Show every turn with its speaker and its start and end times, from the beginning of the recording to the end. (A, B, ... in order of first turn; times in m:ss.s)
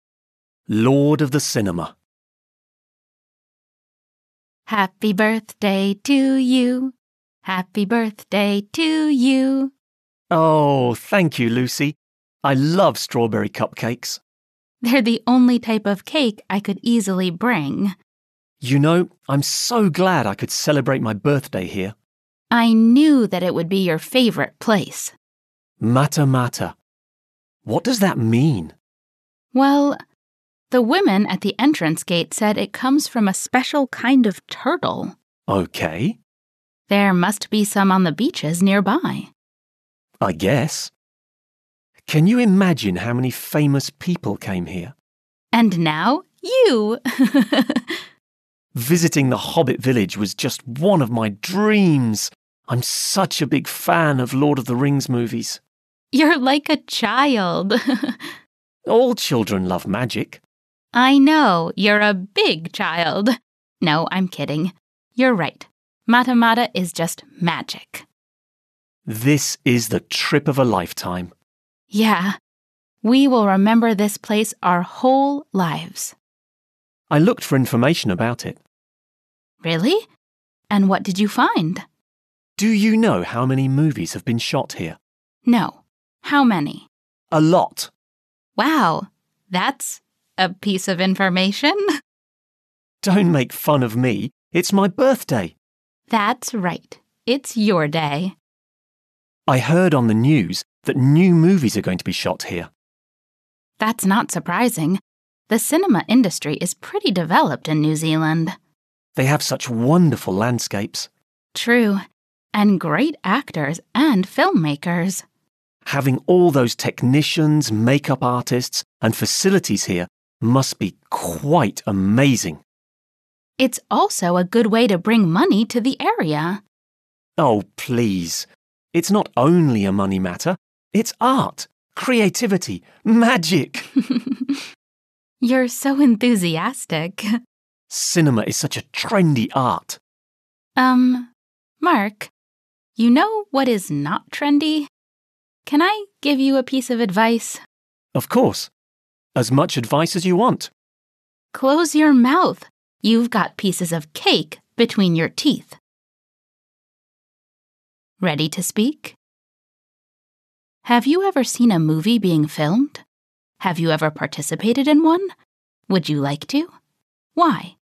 0:00.7-0:01.9 A
0:04.7-0:06.9 B
0:07.4-0:09.7 B
0:10.3-0:14.2 A
0:14.8-0:18.0 B
0:18.6-0:22.0 A
0:22.5-0:25.1 B
0:25.8-0:26.8 A
0:27.6-0:28.8 A
0:29.5-0:30.0 B
0:30.7-0:35.2 B
0:35.5-0:36.2 A
0:36.9-0:39.3 B
0:40.2-0:40.9 A
0:42.0-0:44.9 A
0:45.5-0:48.0 B
0:48.8-0:55.6 A
0:56.1-0:58.3 B
0:58.9-1:00.4 A
1:00.9-1:08.1 B
1:09.1-1:11.3 A
1:11.9-1:12.3 B
1:13.0-1:16.1 B
1:17.1-1:18.6 A
1:19.6-1:20.0 B
1:20.7-1:21.8 B
1:22.6-1:25.0 A
1:25.4-1:26.9 B
1:27.3-1:27.9 A
1:28.6-1:31.8 B
1:33.0-1:35.6 A
1:36.1-1:38.3 B
1:39.5-1:42.7 A
1:43.8-1:48.6 B
1:49.2-1:51.1 A
1:51.5-1:52.0 B
1:52.6-1:55.2 B
1:55.8-2:02.6 A
2:03.6-2:06.6 B
2:07.4-2:13.9 A
2:14.0-2:14.6 B
2:15.4-2:17.3 B
2:17.9-2:20.0 A
2:20.8-2:22.3 B
2:23.0-2:24.9 B
2:25.7-2:27.6 B
2:28.1-2:28.7 A
2:29.4-2:30.7 A
2:31.5-2:35.8 B
2:38.2-2:39.2 B
2:40.8-2:43.0 B
2:43.6-2:45.3 B
2:45.9-2:46.7 B
2:47.3-2:47.8 B